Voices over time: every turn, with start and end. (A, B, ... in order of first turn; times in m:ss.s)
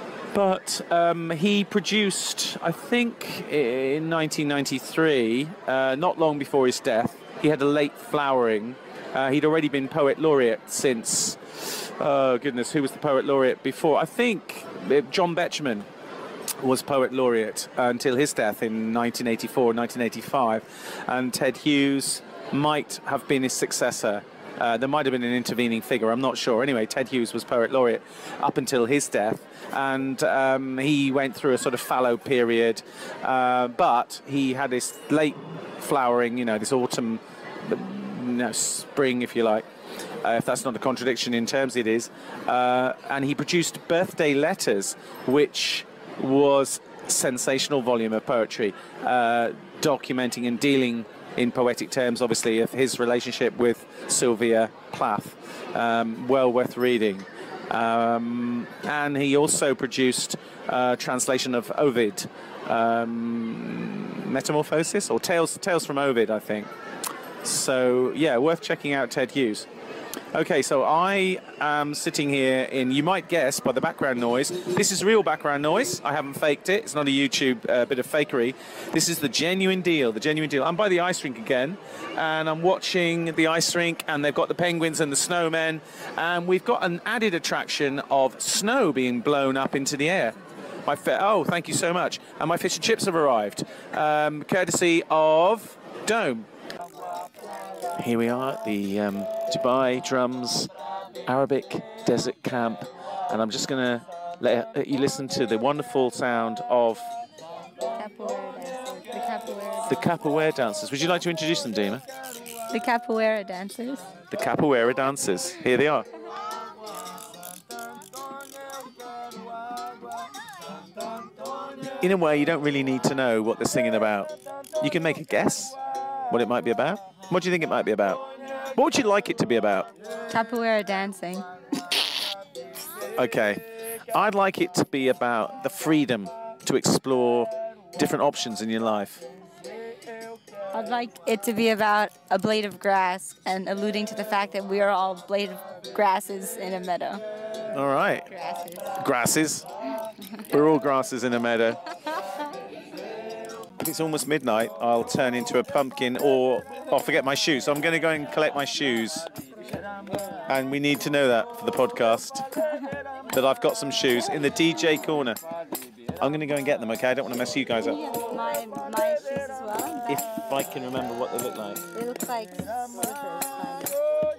0:00.3-0:15.9 A
0:16.6-0:39.6 A
0:40.2-1:06.7 A
1:07.4-1:09.7 A
1:10.3-1:36.5 A
1:38.0-1:40.7 A
1:41.3-1:47.1 A
1:48.0-1:50.1 B
1:49.9-1:52.0 A
1:52.7-1:54.1 B
1:54.3-1:56.1 A
2:01.9-2:05.8 A
2:06.3-2:09.9 A
2:10.3-2:11.5 B
2:13.2-2:19.2 A
2:20.7-2:27.2 B
2:27.7-2:28.3 A
2:28.3-2:28.9 B
2:28.9-2:29.7 A
2:30.4-2:31.9 A
2:33.8-2:39.3 A
2:40.5-2:42.4 A
2:43.3-2:45.4 A
2:46.2-2:48.0 A
2:47.8-2:50.4 B
2:50.1-2:51.8 A
2:51.9-2:54.0 B